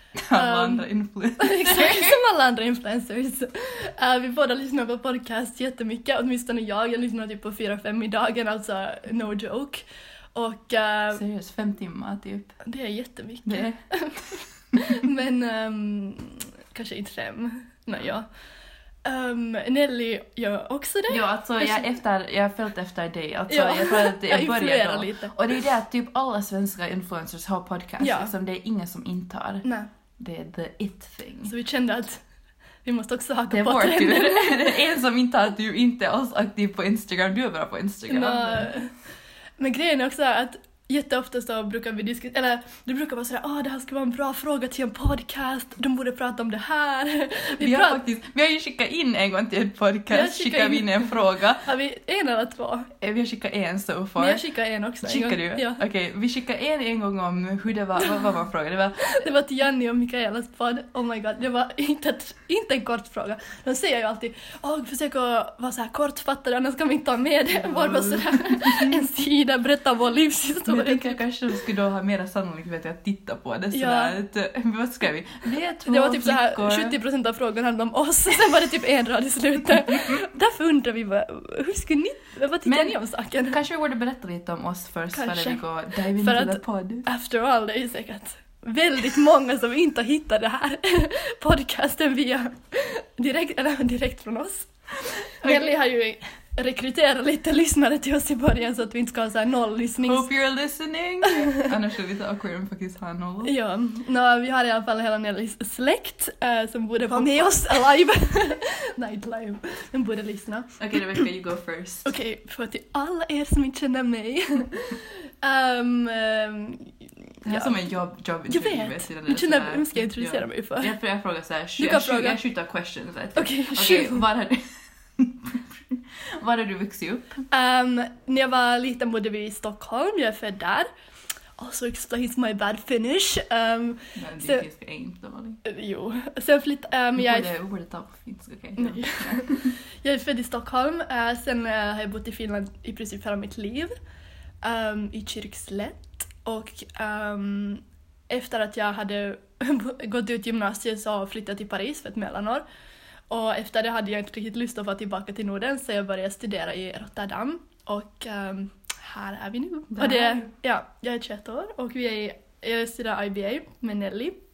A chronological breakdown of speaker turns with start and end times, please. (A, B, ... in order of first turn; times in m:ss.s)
0:00.2-0:02.2 A
0:00.3-0:00.9 B
0:01.4-0:09.8 B
0:10.4-0:11.2 B
0:11.1-0:12.6 A
0:12.6-0:18.3 B
0:13.4-0:13.8 A
0:19.0-0:22.0 B
0:21.1-0:29.6 A
0:23.5-0:25.6 B
0:28.0-0:28.3 B
0:30.2-0:31.5 A
0:31.5-0:32.2 B
0:32.8-0:34.8 B
0:33.5-0:38.8 A
0:38.1-0:38.9 B
0:39.6-0:48.0 B
0:47.6-0:51.7 A
0:50.1-0:52.9 B
0:53.0-0:54.4 A
0:54.2-0:55.8 B
0:55.0-0:59.2 A
0:59.0-1:11.2 B
1:07.6-1:09.0 A
1:10.7-1:17.0 A
1:13.7-1:14.2 B
1:15.8-1:23.6 B
1:22.7-1:27.1 A
1:25.1-1:40.3 B
1:35.4-1:35.7 A
1:40.0-1:43.5 A
1:41.3-1:41.7 B
1:43.4-1:51.3 B
1:47.1-1:47.7 A
1:50.8-1:52.1 A
1:52.0-1:57.8 B
1:57.4-2:07.4 A
1:58.5-2:00.9 B
2:01.8-2:02.4 B
2:03.4-2:04.2 B
2:07.5-2:10.9 B
2:11.6-2:14.6 B
2:14.2-2:15.6 A
2:15.6-2:17.5 B
2:17.2-2:19.7 A
2:18.8-2:23.9 B
2:24.6-2:32.6 B
2:33.3-2:44.4 B
2:39.9-2:40.5 A